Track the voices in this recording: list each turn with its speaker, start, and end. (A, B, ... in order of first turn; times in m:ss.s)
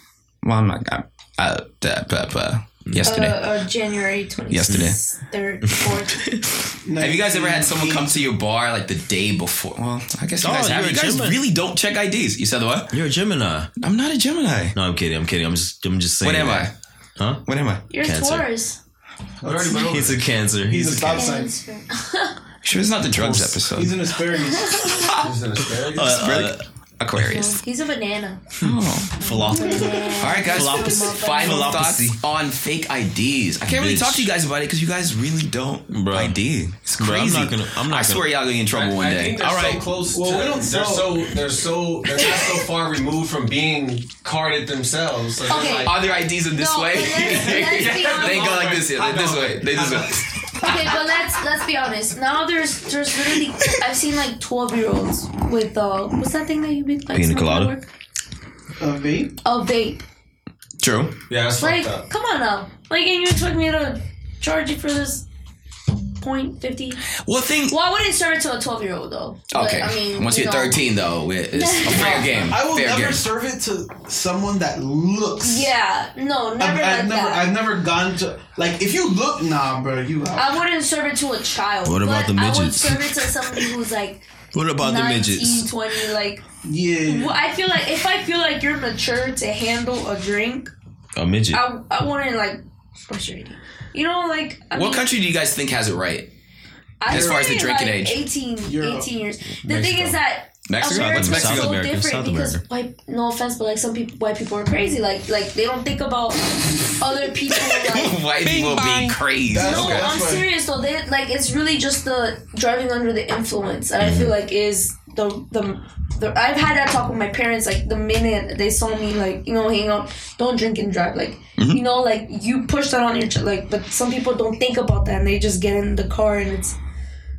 0:00.4-0:03.4 A
0:02.9-0:03.2 B
0:03.0-0:06.2 C
0:04.5-0:05.0 A
0:05.7-0:06.4 B
0:06.8-0:08.2 D
0:07.0-0:13.0 A
0:10.4-0:11.4 B
0:12.9-0:13.7 B
0:13.8-0:14.8 A
0:14.7-0:17.4 B
0:16.2-0:16.7 A
0:17.5-0:17.8 A
0:17.9-0:18.8 C
0:18.0-0:18.5 B
0:19.4-0:20.3 E
0:19.4-0:19.8 D
0:19.7-0:21.3 B
0:20.6-0:21.5 D
0:21.1-0:22.4 C
0:22.6-0:24.0 A
0:23.1-0:23.8 B
0:23.7-0:24.9 D
0:24.6-0:24.9 C
0:24.7-0:25.3 A
0:25.1-0:26.3 E
0:25.9-0:26.6 B
0:25.9-0:27.6 A
0:27.2-0:28.4 C
0:28.6-0:29.2 A
0:28.6-0:32.2 B
0:29.2-0:31.9 C
0:29.5-0:30.2 D
0:30.2-0:39.8 A
0:33.7-0:34.3 B
0:35.9-0:36.4 B
0:37.0-0:38.3 B
0:38.7-0:46.2 E
0:40.1-0:41.3 D
0:45.5-0:48.6 C
0:45.5-0:50.7 A
0:47.2-0:50.9 E
0:50.6-0:57.9 C
0:57.1-0:57.7 B
0:58.8-0:59.4 D
0:59.4-1:00.0 C
1:00.8-1:01.2 A
1:01.3-1:02.1 E
1:01.6-1:05.2 C
1:06.2-1:07.1 C
1:07.2-1:07.8 A
1:07.7-1:10.8 C
1:09.5-1:13.2 A
1:11.5-1:12.4 C
1:12.3-1:15.7 D
1:15.4-1:17.5 C
1:16.6-1:20.5 D
1:20.3-1:26.4 C
1:21.8-1:23.7 B
1:24.5-1:25.7 B
1:26.6-1:27.4 D
1:27.0-1:30.7 C
1:31.2-1:31.6 B
1:31.5-1:35.1 C
1:34.8-1:36.3 A
1:37.0-1:48.2 C
1:37.1-1:38.2 A
1:37.1-1:37.5 D
1:38.6-1:39.1 D
1:39.6-1:40.2 B
1:40.7-1:41.8 A
1:40.8-1:42.6 B
1:47.6-1:50.1 A
1:48.5-1:50.5 D
1:49.6-2:06.8 C
1:54.0-1:54.4 B
2:01.6-2:01.8 A